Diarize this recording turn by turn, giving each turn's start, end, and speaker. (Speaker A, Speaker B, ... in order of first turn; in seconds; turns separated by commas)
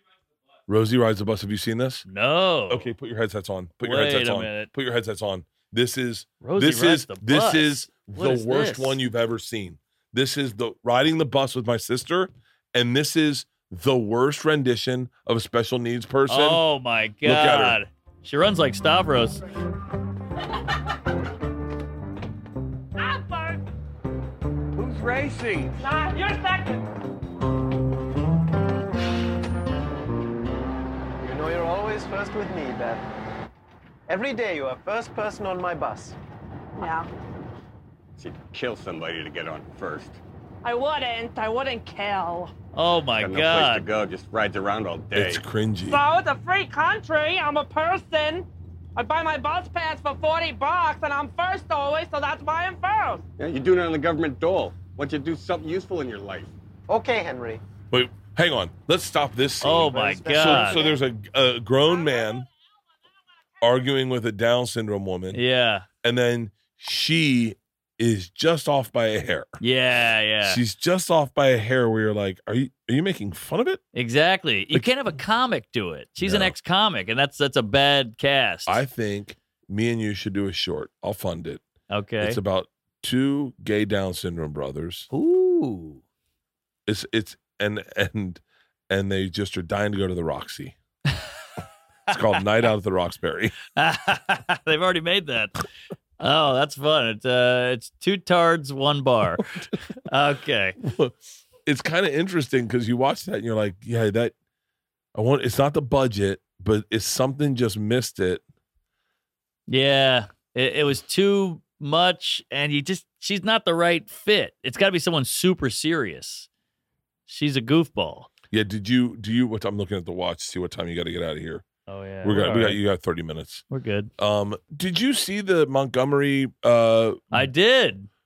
Speaker A: 0.7-2.0, Speaker B: 2.1-2.9, Speaker A: 2.7-16.6, Speaker B: 3.8-4.7, Speaker B: 6.4-9.0, Speaker B: 16.3-19.4, Speaker A: 17.2-17.8, Speaker C: 23.0-23.6, Speaker D: 24.8-25.8, Speaker C: 25.8-26.9, Speaker E: 31.2-33.0, Speaker E: 34.1-36.2, Speaker C: 36.8-37.1, Speaker D: 38.2-40.2, Speaker C: 40.6-42.5, Speaker B: 42.7-43.9, Speaker D: 43.1-45.4, Speaker A: 45.1-46.0, Speaker C: 45.9-53.2, Speaker D: 53.4-56.5, Speaker E: 56.9-57.6, Speaker A: 57.9-62.5, Speaker B: 59.6-60.8, Speaker C: 60.5-60.8, Speaker A: 63.6-65.4, Speaker B: 65.3-65.9, Speaker A: 66.0-69.5, Speaker B: 69.6-70.6, Speaker A: 70.4-73.8, Speaker B: 74.0-78.8, Speaker A: 76.2-76.5, Speaker A: 78.7-81.6, Speaker B: 81.9-82.4, Speaker A: 82.2-85.1, Speaker B: 85.1-86.0, Speaker A: 86.9-90.8, Speaker A: 92.1-93.6, Speaker B: 93.8-95.6, Speaker B: 96.2-99.5, Speaker B: 100.0-100.8, Speaker A: 100.8-104.3, Speaker A: 105.2-108.4, Speaker B: 109.7-116.5, Speaker B: 117.3-118.3, Speaker A: 118.5-121.7, Speaker B: 121.9-122.8, Speaker A: 122.2-123.6, Speaker B: 123.7-124.1, Speaker A: 124.2-127.5, Speaker B: 127.3-128.1